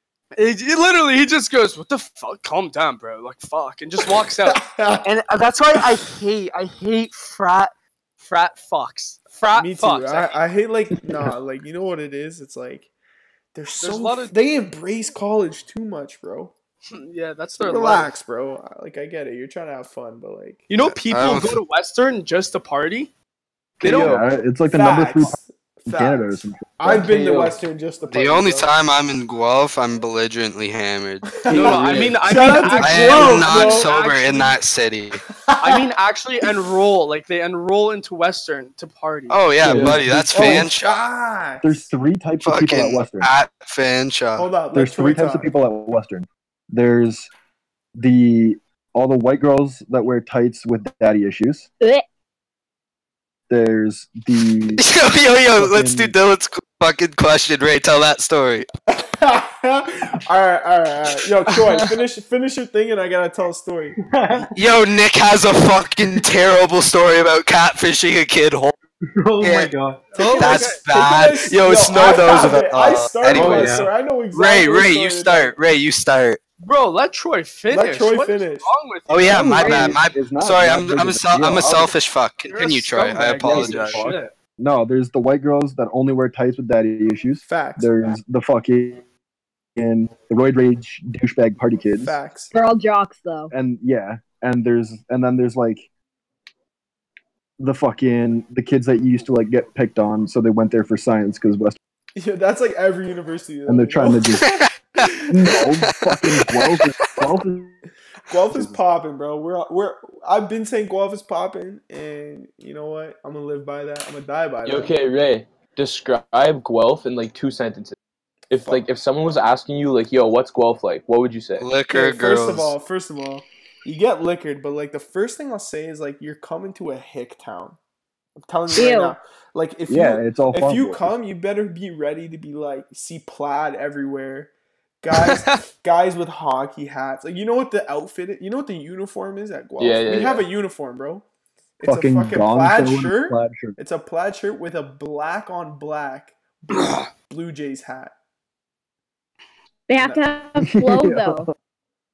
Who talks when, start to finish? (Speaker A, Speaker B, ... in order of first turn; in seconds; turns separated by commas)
Speaker A: 0.4-10.3, Speaker B: 4.5-5.0, Speaker B: 9.5-12.9, Speaker B: 13.5-16.5, Speaker A: 13.8-14.3, Speaker A: 16.9-18.2, Speaker B: 17.6-20.7, Speaker A: 20.7-23.1, Speaker C: 21.1-21.6, Speaker D: 23.8-24.2, Speaker E: 23.8-27.1, Speaker A: 23.9-24.1, Speaker B: 24.6-28.7, Speaker D: 26.9-27.6, Speaker C: 28.1-31.2, Speaker B: 31.3-33.9, Speaker D: 31.5-32.8, Speaker A: 31.5-34.6, Speaker C: 32.8-35.2, Speaker B: 35.5-35.8, Speaker A: 35.6-39.9, Speaker C: 39.3-41.0, Speaker E: 39.6-40.7, Speaker B: 40.3-41.9, Speaker E: 41.6-43.3, Speaker C: 42.4-44.5, Speaker B: 44.4-45.5, Speaker E: 44.7-47.3, Speaker E: 48.0-51.7, Speaker E: 53.5-54.8, Speaker C: 54.8-58.7, Speaker E: 55.6-56.1, Speaker B: 58.9-64.0, Speaker F: 64.0-64.6, Speaker C: 64.5-68.8, Speaker F: 69.2-70.2, Speaker C: 69.4-73.8, Speaker B: 70.1-75.6, Speaker A: 70.2-70.8, Speaker F: 73.3-73.9, Speaker C: 74.3-76.4, Speaker A: 76.6-79.8, Speaker B: 77.7-78.7, Speaker C: 79.1-84.1, Speaker E: 79.3-81.9, Speaker G: 79.6-80.0, Speaker A: 82.5-84.3, Speaker E: 83.4-89.0, Speaker B: 87.4-88.0, Speaker E: 89.8-92.2, Speaker B: 92.0-92.5, Speaker G: 92.5-93.5, Speaker E: 93.5-95.9, Speaker E: 97.6-101.8, Speaker B: 102.2-105.6, Speaker E: 103.7-104.5, Speaker C: 104.4-104.7, Speaker E: 105.3-107.8, Speaker B: 108.3-114.9, Speaker E: 108.5-108.8, Speaker D: 114.7-118.0, Speaker D: 118.5-121.7, Speaker C: 121.6-122.7, Speaker B: 121.9-127.8, Speaker B: 128.4-141.2, Speaker G: 128.7-129.2, Speaker E: 129.9-131.2, Speaker A: 135.1-135.6, Speaker D: 139.8-140.5, Speaker B: 141.8-148.1, Speaker E: 141.8-143.8, Speaker G: 149.9-151.5, Speaker E: 150.6-151.5